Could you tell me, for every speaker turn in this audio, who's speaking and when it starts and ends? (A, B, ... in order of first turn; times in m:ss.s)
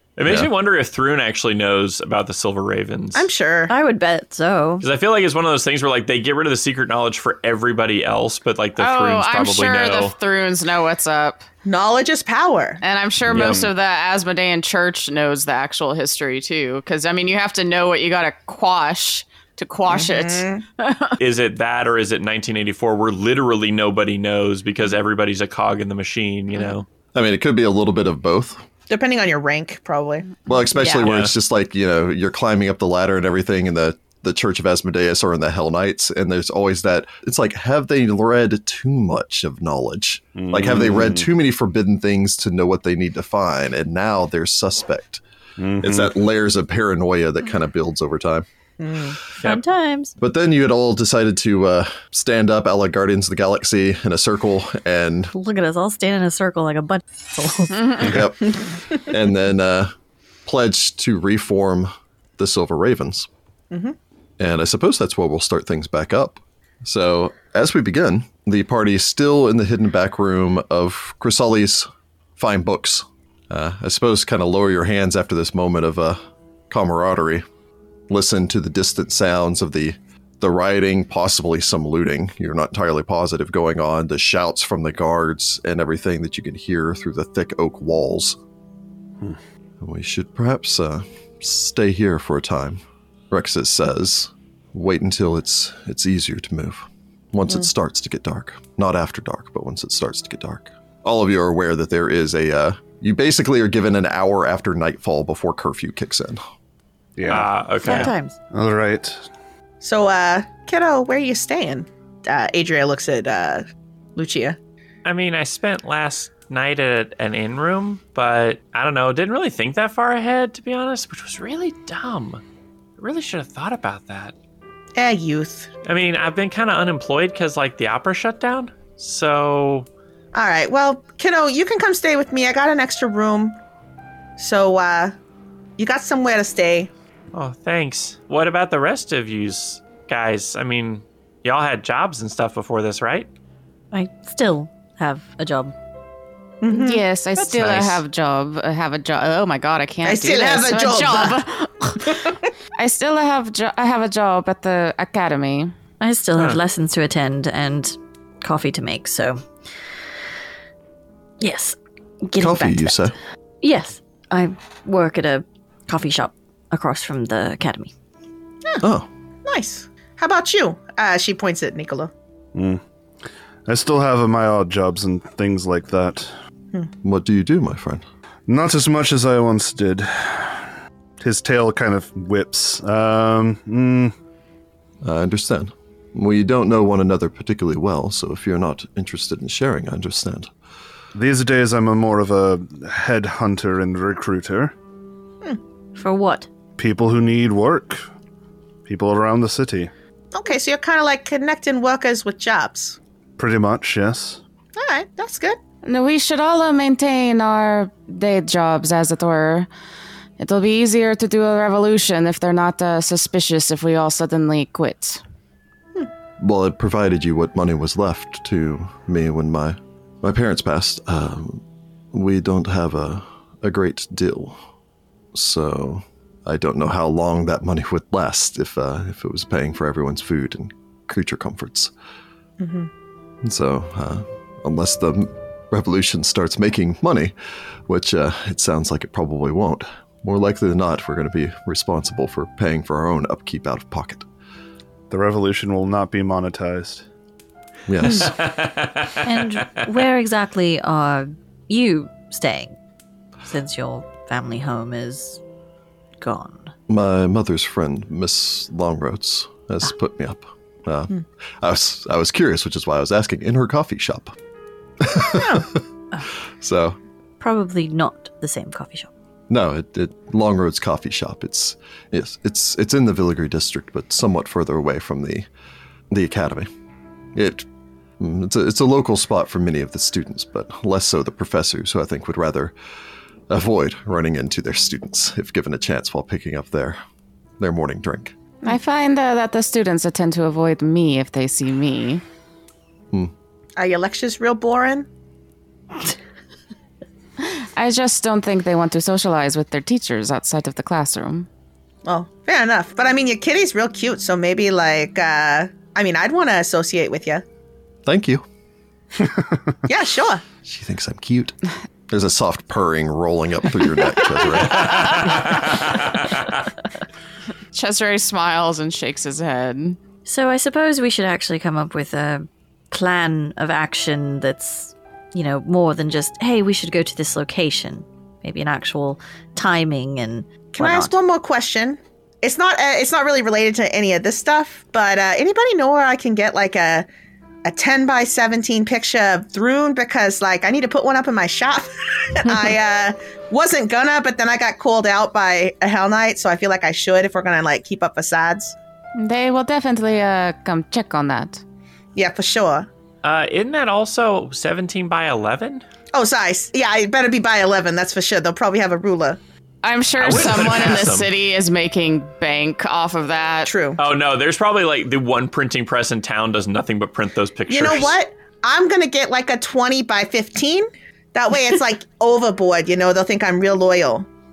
0:00.2-0:03.3 A
0:03.2-0:03.7 B
0:03.7-0:04.8 C
0:04.8-0:10.1 A
0:08.8-0:11.4 D
0:11.6-0:12.8 B
0:12.8-0:21.2 D
0:13.3-0:13.7 E
0:19.9-0:20.6 B
0:21.2-0:26.9 A
0:27.1-0:28.6 F
0:28.9-0:30.4 B
0:30.5-0:45.2 F
0:31.0-0:31.3 A
0:40.4-0:41.3 E
0:45.6-0:46.1 E
0:45.8-0:48.5 F
0:48.8-0:49.2 B
0:49.4-0:50.1 C
0:50.2-0:55.3 F
0:55.3-0:58.2 C
0:57.8-0:58.1 D
0:58.0-0:59.9 F
1:00.5-1:03.3 F
1:03.7-1:04.0 B
1:04.4-1:16.2 F
1:16.7-1:17.4 F
1:18.1-1:28.4 F
1:29.8-1:46.4 F
1:47.2-1:49.2 E
1:47.3-1:48.1 A
1:47.8-1:48.4 C
1:49.8-1:54.6 B
1:55.0-2:02.4 A
2:03.0-2:04.4 A
2:05.0-2:05.7 B
2:05.8-2:09.9 A
2:10.3-2:13.6 B
2:14.4-2:15.1 B
2:15.8-2:16.9 B
2:17.3-2:23.3 A
2:23.9-2:25.8 C
2:26.6-2:27.1 B
2:26.7-2:35.7 D
2:27.5-2:28.0 A
2:30.0-2:31.4 B
2:32.0-2:32.4 B
2:36.0-2:39.4 C
2:41.4-2:43.1 C
2:42.4-2:43.2 F
2:43.6-2:47.9 C
2:48.8-2:49.1 F
2:49.5-2:52.1 B
2:52.6-2:52.8 E
2:53.7-2:56.3 E
2:57.0-2:58.0 F
2:58.5-3:00.6 E
3:01.2-3:04.1 E
3:05.0-3:10.5 F
3:11.2-3:14.7 E
3:16.0-3:16.5 C
3:16.8-3:18.1 E
3:18.8-3:19.9 E
3:20.3-3:23.0 B
3:23.4-3:24.4 E
3:24.8-3:25.6 B
3:25.8-3:29.7 D
3:30.4-3:35.2 D
3:36.4-3:44.6 F
3:45.3-3:51.9 F
3:52.6-3:52.9 B
3:53.4-3:57.3 F
3:57.9-4:04.3 F
4:05.1-4:07.1 E
4:07.9-4:08.4 F
4:08.2-4:09.3 A
4:09.2-4:12.8 C
4:13.4-4:15.4 C
4:16.2-4:16.7 C
4:16.9-4:24.4 F
4:25.0-4:25.8 F
4:25.3-4:25.7 B
4:26.6-4:27.0 F
4:27.4-4:29.1 C
4:29.5-4:35.5 F
4:36.1-4:36.7 F
4:37.4-4:37.7 F
4:38.2-4:42.7 F
4:43.5-4:47.0 F
4:47.6-4:48.3 F
4:48.6-4:52.2 D
4:53.8-4:55.1 B
4:57.4-5:01.5 D
5:02.0-5:07.4 B
5:08.1-5:08.4 F
5:09.2-5:09.5 E
5:09.9-5:10.4 B
5:10.6-5:11.6 F
5:12.1-5:15.6 F
5:14.7-5:16.6 A
5:17.7-5:20.0 D
5:20.2-5:31.2 C
5:30.8-5:37.1 B
5:37.6-5:48.8 B
5:49.2-5:51.6 D
5:52.2-5:52.9 B
5:53.2-5:55.8 A
5:56.1-5:59.4 B
5:59.8-6:03.7 D
6:00.2-6:01.3 A
6:03.7-6:04.0 B
6:04.0-6:08.2 A
6:07.7-6:14.3 B